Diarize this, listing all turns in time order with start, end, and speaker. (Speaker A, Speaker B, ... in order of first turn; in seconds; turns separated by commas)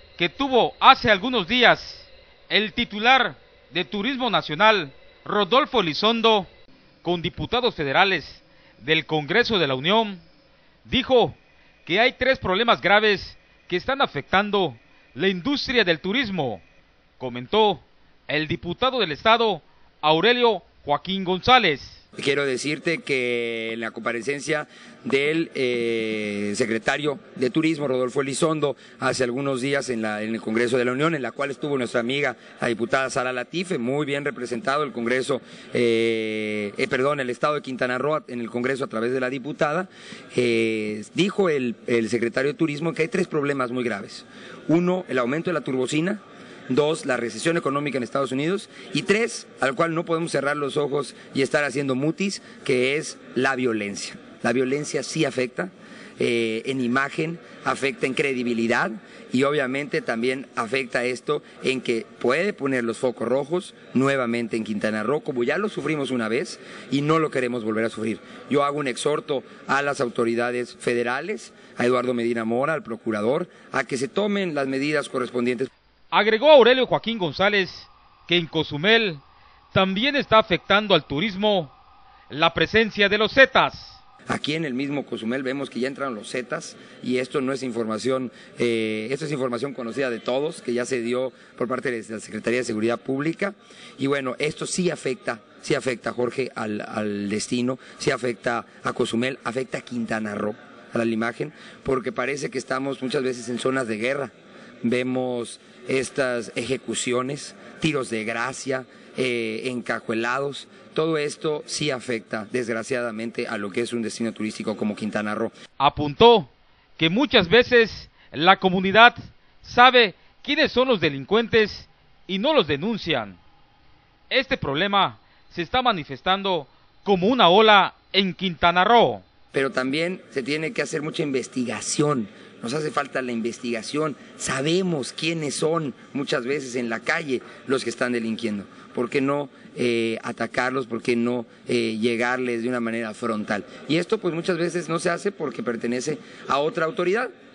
Speaker A: 0.2-6.5, Speaker A: 7.0-10.2, Speaker A: 10.8-16.6, Speaker A: 17.2-22.0, Speaker B: 22.2-75.7, Speaker A: 76.1-81.7, Speaker A: 82.3-84.0, Speaker B: 84.3-104.3, Speaker B: 104.8-115.5, Speaker A: 115.8-123.4, Speaker A: 124.3-129.2, Speaker B: 129.5-147.3